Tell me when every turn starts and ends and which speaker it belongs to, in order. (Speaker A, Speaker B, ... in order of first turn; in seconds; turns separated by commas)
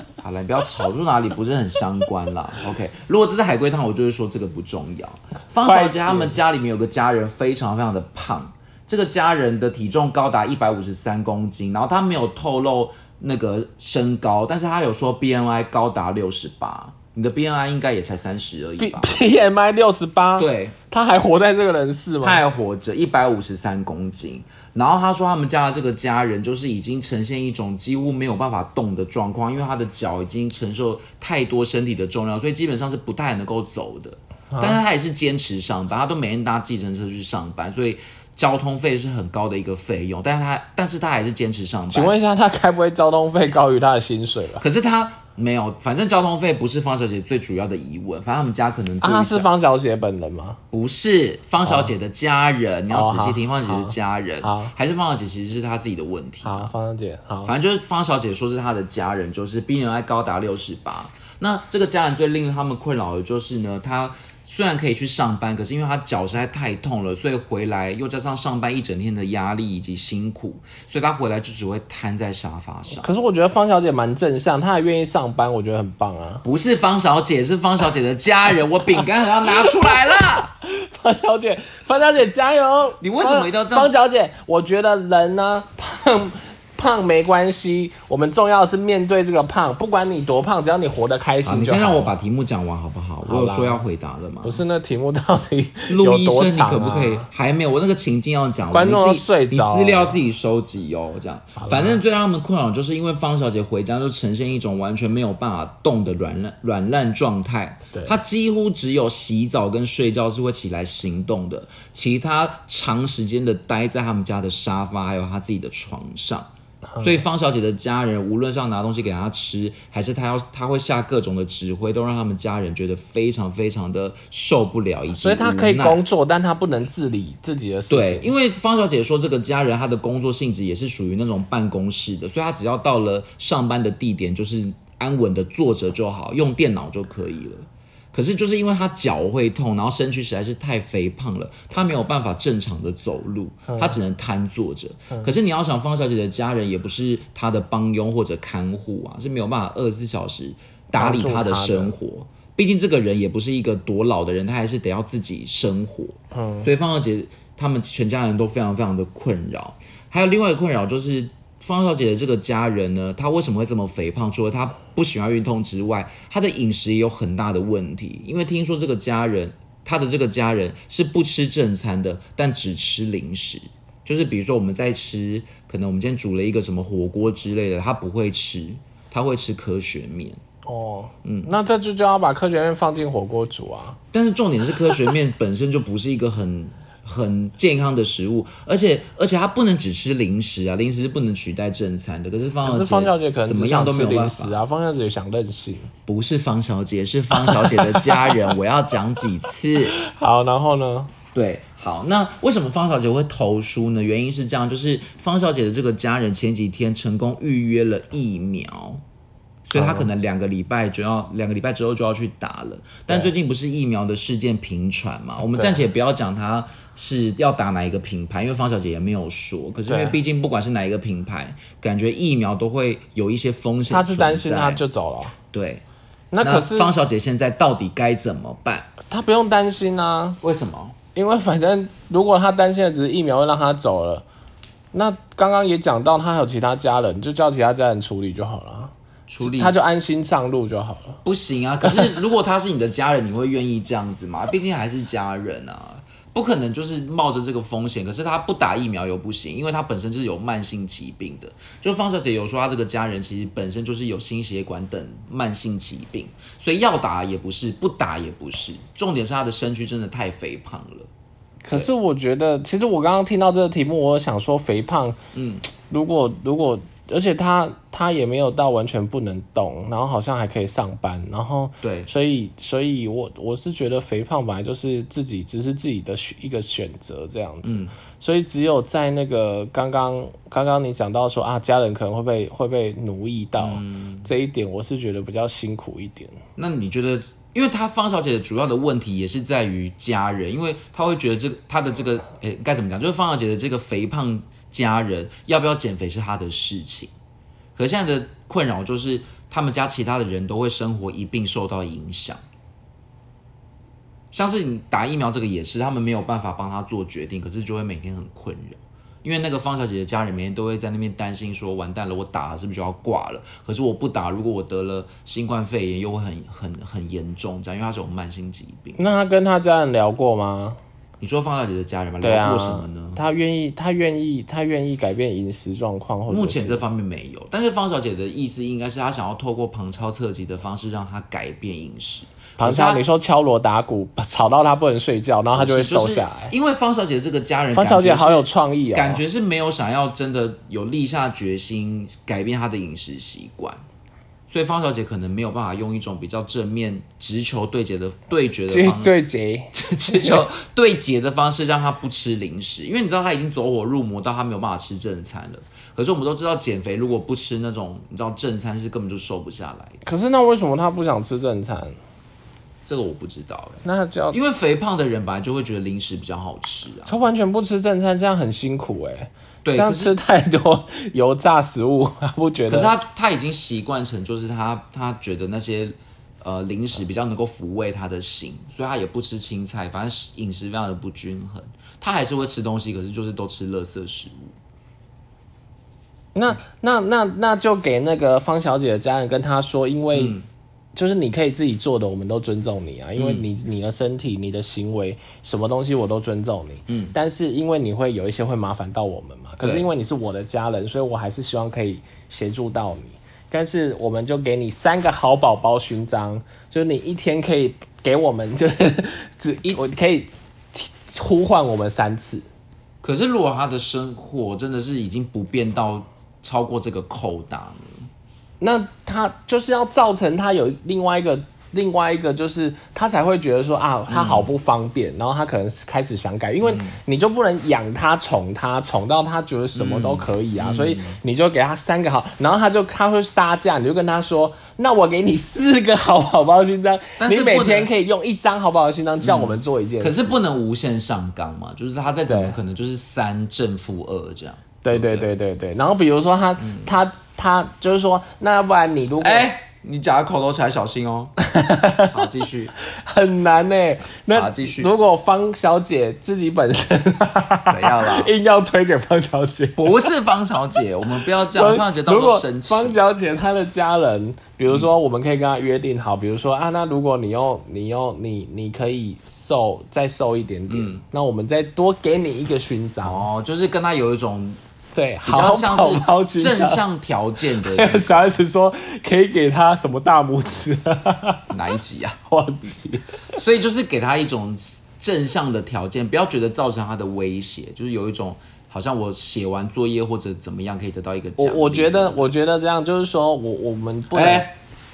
Speaker A: 0.2-19.1, Speaker B: 5.6-6.4, Speaker B: 18.8-22.4, Speaker A: 20.4-20.8, Speaker A: 22.2-42.1, Speaker B: 34.5-34.8, Speaker B: 41.9-44.6, Speaker A: 44.6-49.5, Speaker B: 49.0-50.6, Speaker A: 50.7-56.7, Speaker B: 51.6-51.9, Speaker B: 52.9-54.8, Speaker B: 56.4-57.5, Speaker A: 57.5-73.1, Speaker B: 72.9-76.4, Speaker A: 76.4-80.5, Speaker B: 79.6-80.0, Speaker B: 80.6-92.1, Speaker A: 83.0-83.9, Speaker A: 91.4-94.6, Speaker B: 93.2-93.8, Speaker B: 94.4-97.3, Speaker A: 95.9-126.0, Speaker B: 98.7-100.2, Speaker B: 101.6-102.0, Speaker B: 116.9-117.2, Speaker B: 125.1-128.3, Speaker A: 127.9-180.4, Speaker B: 143.7-144.0, Speaker B: 150.9-151.9, Speaker B: 156.3-156.7, Speaker B: 180.7-184.0, Speaker A: 181.2-181.5, Speaker A: 184.1-194.6, Speaker B: 192.7-195.9, Speaker A: 196.1-200.0, Speaker B: 197.3-198.3, Speaker B: 199.9-201.1, Speaker A: 201.3-209.0, Speaker A: 209.7-224.8, Speaker B: 209.7-210.1, Speaker B: 219.9-220.2, Speaker B: 223.9-225.3, Speaker A: 225.5-225.8, Speaker B: 226.3-226.9, Speaker A: 226.4-228.9, Speaker B: 229.1-230.4, Speaker A: 230.4-230.9, Speaker B: 231.2-234.2, Speaker B: 234.9-241.2, Speaker A: 239.3-239.8, Speaker A: 241.2-261.1, Speaker B: 261.6-265.2, Speaker A: 265.4-265.7, Speaker B: 265.9-286.4, Speaker A: 271.8-272.1, Speaker A: 277.6-278.0, Speaker A: 283.6-284.3, Speaker A: 286.6-297.1, Speaker A: 297.8-302.4, Speaker A: 304.3-319.0, Speaker B: 319.0-320.8, Speaker A: 321.2-323.2, Speaker B: 322.2-326.8, Speaker A: 326.3-333.0, Speaker B: 332.6-336.5, Speaker A: 335.6-343.8, Speaker B: 337.7-339.2, Speaker A: 344.5-349.1, Speaker B: 348.7-350.5, Speaker A: 349.7-360.0, Speaker B: 360.1-362.0, Speaker A: 362.9-367.2, Speaker B: 363.8-364.4, Speaker B: 367.1-372.9, Speaker A: 369.6-370.2, Speaker A: 372.7-384.6, Speaker B: 386.4-390.4, Speaker A: 390.1-390.5, Speaker B: 390.9-412.5, Speaker A: 393.2-393.5, Speaker A: 396.9-397.2, Speaker A: 413.0-418.1, Speaker B: 418.6-440.4, Speaker A: 424.1-424.5, Speaker A: 426.6-427.0, Speaker A: 429.8-431.2, Speaker A: 437.2-437.9, Speaker A: 439.2-445.2, Speaker B: 442.2-442.6, Speaker B: 444.8-449.6, Speaker A: 446.6-446.9, Speaker A: 449.2-451.3, Speaker B: 451.4-452.2, Speaker A: 452.1-452.8, Speaker B: 452.8-460.0, Speaker A: 454.3-454.9, Speaker A: 457.7-458.3, Speaker A: 459.8-463.0, Speaker B: 461.5-473.2, Speaker A: 470.7-471.0, Speaker A: 473.0-474.6, Speaker B: 474.9-476.8, Speaker A: 475.2-478.3, Speaker B: 477.6-481.5, Speaker A: 481.5-482.2, Speaker B: 482.3-483.2, Speaker A: 483.4-492.3, Speaker B: 491.4-494.5, Speaker A: 494.1-494.5